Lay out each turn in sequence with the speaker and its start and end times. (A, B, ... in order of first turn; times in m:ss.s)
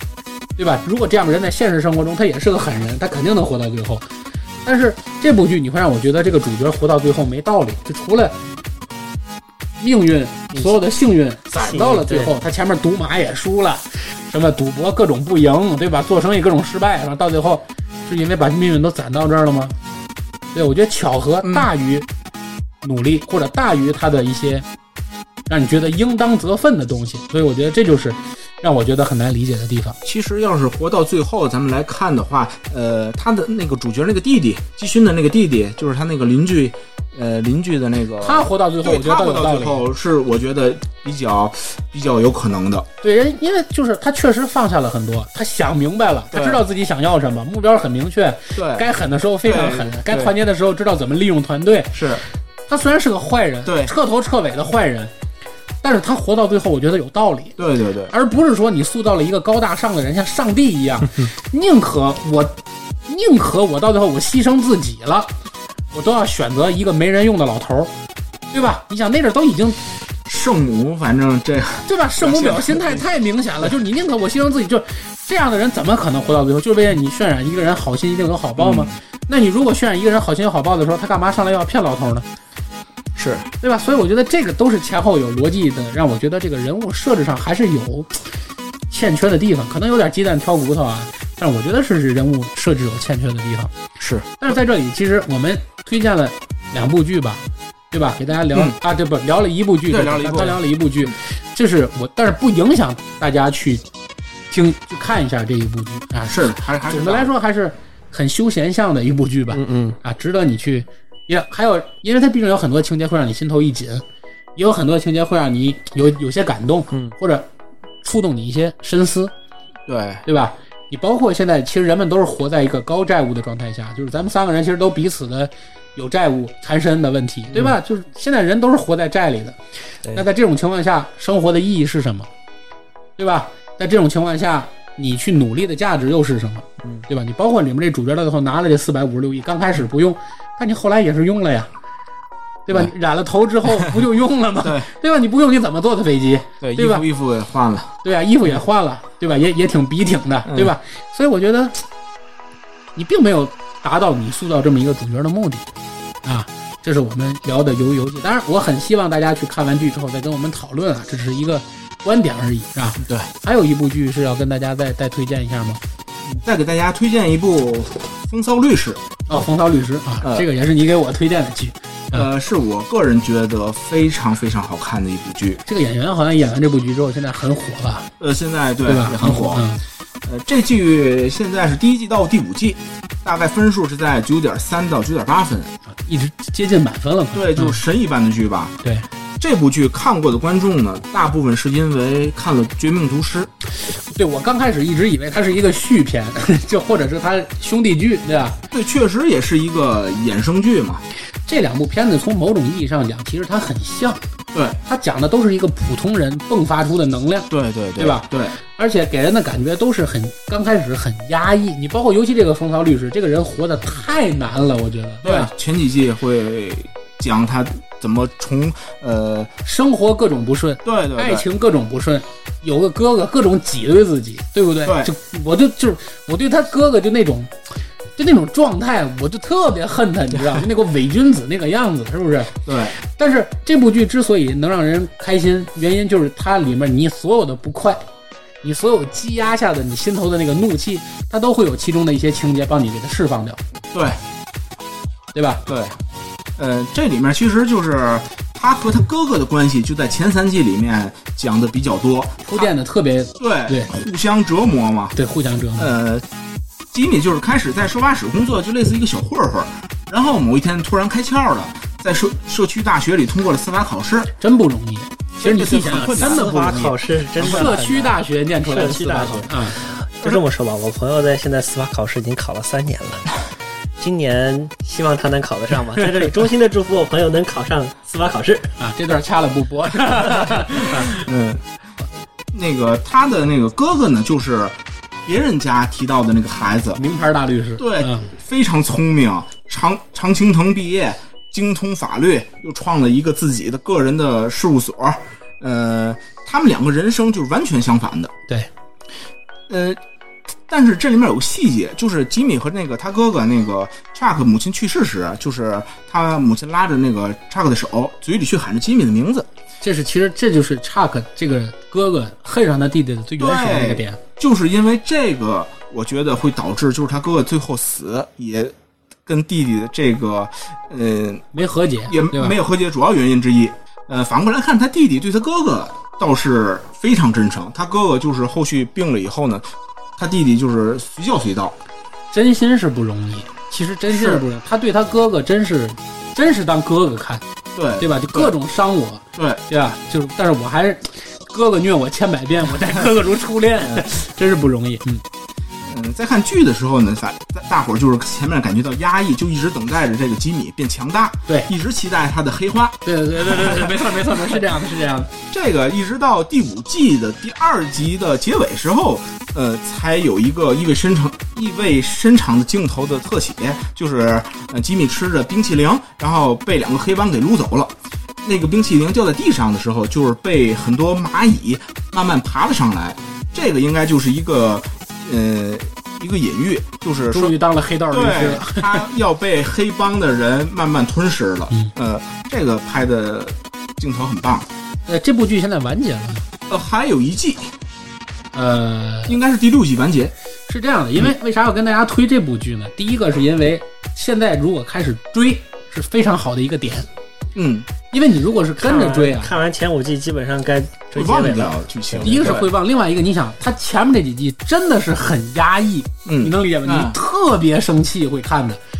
0:00.6-0:04.0 A
0:04.6-0:08.4 A
0:09.8-0:19.8 A
0:11.6-0:12.3 B
0:20.5-0:22.1 A
0:21.4-0:21.7 C
0:22.8-0:24.7 A
0:25.5-0:30.0 A
0:30.0-0:42.9 C
0:38.2-0:39.8 A
0:43.0-0:52.0 A
0:46.3-0:46.6 C
0:48.6-0:48.9 C
0:49.4-0:50.3 C
0:51.9-0:52.2 C
0:52.7-0:55.1 A
0:53.6-0:53.9 C
0:55.8-0:57.6 A
0:57.6-0:58.1 C
0:58.1-1:02.6 A
1:03.1-1:05.3 A
1:05.9-1:07.9 A
1:08.5-1:09.8 A
1:10.3-1:13.1 C
1:11.9-1:22.3 A
1:18.6-1:18.9 C
1:23.2-1:23.5 C
1:23.6-1:28.3 A
1:28.9-1:33.7 A
1:34.0-1:34.5 C
1:34.4-1:43.8 A
1:38.5-1:38.8 C
1:39.9-1:40.6 C
1:44.5-1:54.0 A
1:46.3-1:47.3 C
1:49.5-1:50.0 B
1:54.6-1:57.5 A
1:58.0-1:59.3 A
1:59.9-2:00.2 C
2:00.3-2:09.6 A
2:10.1-2:12.3 A
2:13.2-2:21.7 A
2:22.7-2:27.1 A
2:24.6-2:24.9 C
2:26.6-2:27.9 C
2:28.0-2:31.8 A
2:30.5-2:30.8 C
2:33.0-2:35.7 A
2:36.2-2:45.8 A
2:43.0-2:43.3 C
2:46.3-2:49.2 C
2:49.3-2:52.3 A
2:50.2-2:50.5 C
2:52.1-2:55.6 C
2:55.6-2:58.1 A
2:58.2-2:59.7 C
2:58.8-2:59.8 A
3:00.2-3:05.7 C
3:06.0-3:07.8 A
3:07.3-3:08.8 C
3:09.4-3:13.5 C
3:13.9-3:18.6 A
3:18.7-3:21.0 C
3:21.5-3:24.2 A
3:24.5-3:24.8 C
3:24.8-3:35.5 A
3:27.5-3:28.6 C
3:35.2-3:39.5 C
3:39.6-3:47.6 A
3:40.8-3:41.5 C
3:44.8-3:45.1 C
3:48.2-3:58.0 A
3:52.7-3:53.0 C
3:58.6-4:03.6 A
4:03.9-4:04.2 C
4:05.3-4:05.6 A
4:05.7-4:06.0 C
4:06.6-4:12.7 C
4:12.5-4:13.9 A
4:13.4-4:15.2 C
4:15.2-4:16.0 A
4:15.8-4:16.2 C
4:16.9-4:24.3 C
4:24.4-4:29.8 A
4:25.4-4:26.8 C
4:25.8-4:33.3 B
4:27.4-4:27.8 C
4:34.0-4:38.7 B
4:38.8-4:41.2 A
4:40.8-4:41.6 C
4:42.5-4:47.0 C
4:47.0-4:48.3 A
4:47.8-4:58.3 C
4:59.7-5:00.0 C
5:00.7-5:09.5 C
5:09.8-5:14.2 A
5:13.4-5:18.7 C
5:19.3-5:21.5 C
5:21.5-5:22.6 A
5:22.1-5:31.8 C
5:32.3-5:37.4 A
5:34.1-5:34.4 C
5:37.8-5:38.6 C
5:38.0-5:45.2 A
5:39.4-5:39.6 C
5:43.8-5:44.1 C
5:45.9-5:53.9 C
5:53.0-5:55.3 A
5:55.5-6:17.6 C
6:17.3-6:19.0 A
6:18.1-6:24.7 C
6:25.1-6:26.5 A
6:26.7-6:27.7 C
6:28.5-6:29.4 A
6:29.3-6:30.3 C
6:30.7-6:37.1 A
6:37.6-6:37.9 C
6:38.1-6:39.6 A
6:38.8-6:42.6 B
6:41.2-6:42.7 C
6:42.2-6:48.8 A
6:46.3-6:47.2 C